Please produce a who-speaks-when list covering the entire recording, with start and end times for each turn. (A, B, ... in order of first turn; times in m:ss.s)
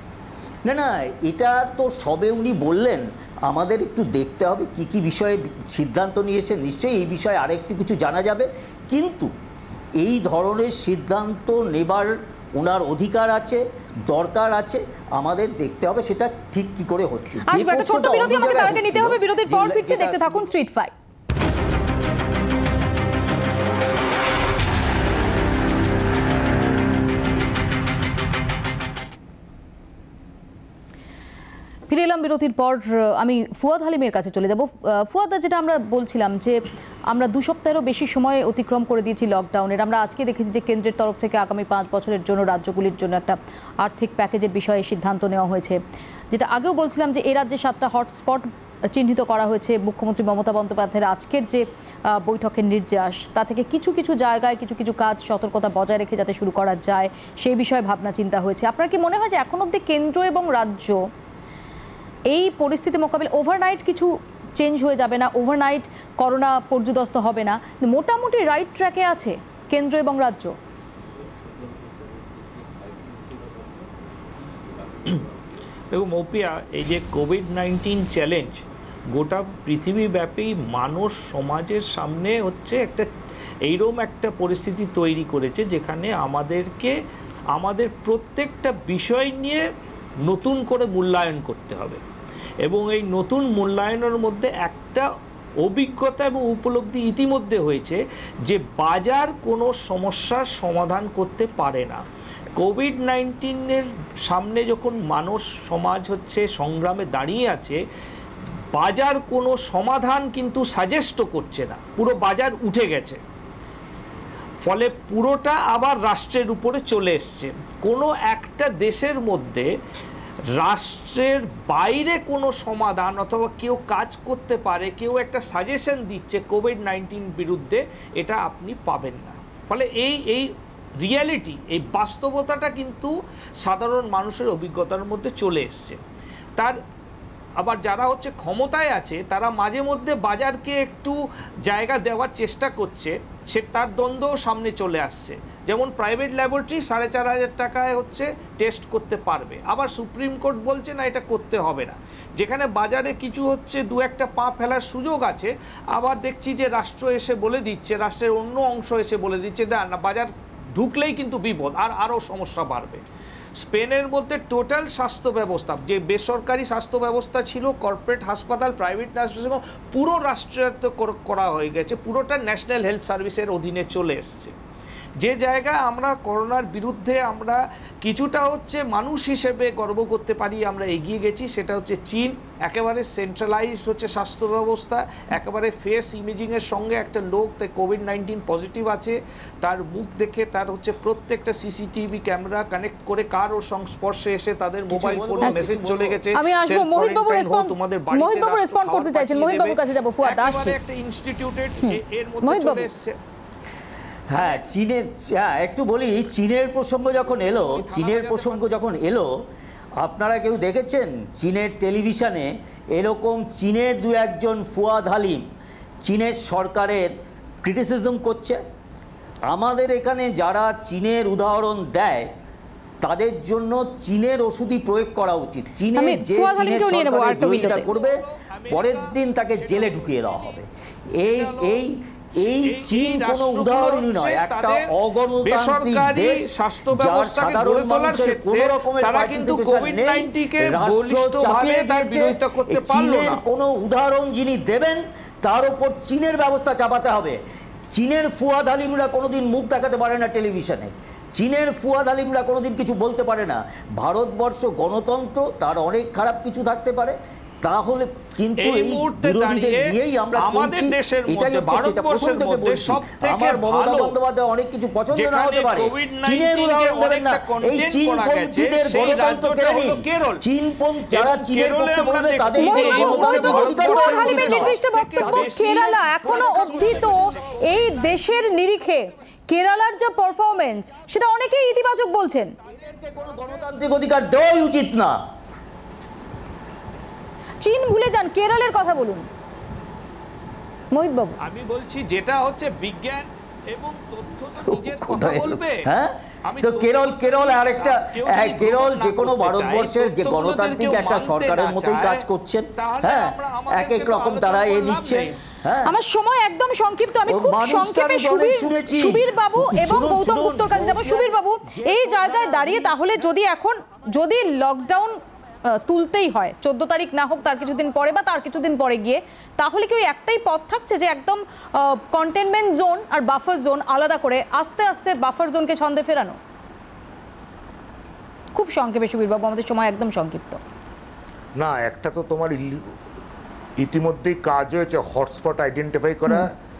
0:00.6-0:09.3 A
0:10.0-0:20.4 A
0:17.5-0:20.9 B
0:31.9-0:45.8 B
0:46.3-1:01.0 B
1:02.3-1:10.5 B
1:15.9-1:23.1 C
1:23.6-1:27.0 C
1:27.5-1:29.6 C
1:30.2-1:32.0 C
1:32.6-1:35.1 C
1:35.6-1:42.0 C
1:42.6-1:47.8 C
1:48.7-1:53.2 C
1:54.6-1:59.7 C
2:00.5-2:16.0 C
2:17.6-2:43.0 C
2:43.6-2:54.5 C
2:55.2-3:23.2 C
3:14.9-3:16.3 A
3:15.4-3:15.7 B
3:16.3-3:20.8 B
3:21.8-3:22.9 B
3:24.3-3:29.4 A
3:27.6-3:28.7 C
3:30.0-3:35.5 A
3:36.0-3:37.1 A
3:37.6-3:38.6 A
3:39.5-3:42.3 A
3:43.0-4:07.4 A
3:46.0-3:47.9 B
3:47.6-3:50.6 C
3:51.3-3:51.8 C
3:52.4-3:54.9 C
3:55.4-4:03.4 C
4:07.9-4:37.2 A
4:18.6-4:24.1 C
4:25.1-4:30.4 C
4:31.1-4:37.6 C
4:32.6-4:42.5 B
4:42.7-4:45.2 A
4:47.6-4:49.3 B
4:50.9-4:51.4 B
4:51.4-4:55.9 C
4:54.6-5:06.0 A
4:56.4-5:02.2 C
5:02.8-5:05.4 C
5:05.8-5:26.4 B
5:07.3-5:13.0 A
5:28.6-5:30.6 B
5:31.6-5:32.9 D
5:33.8-5:36.5 D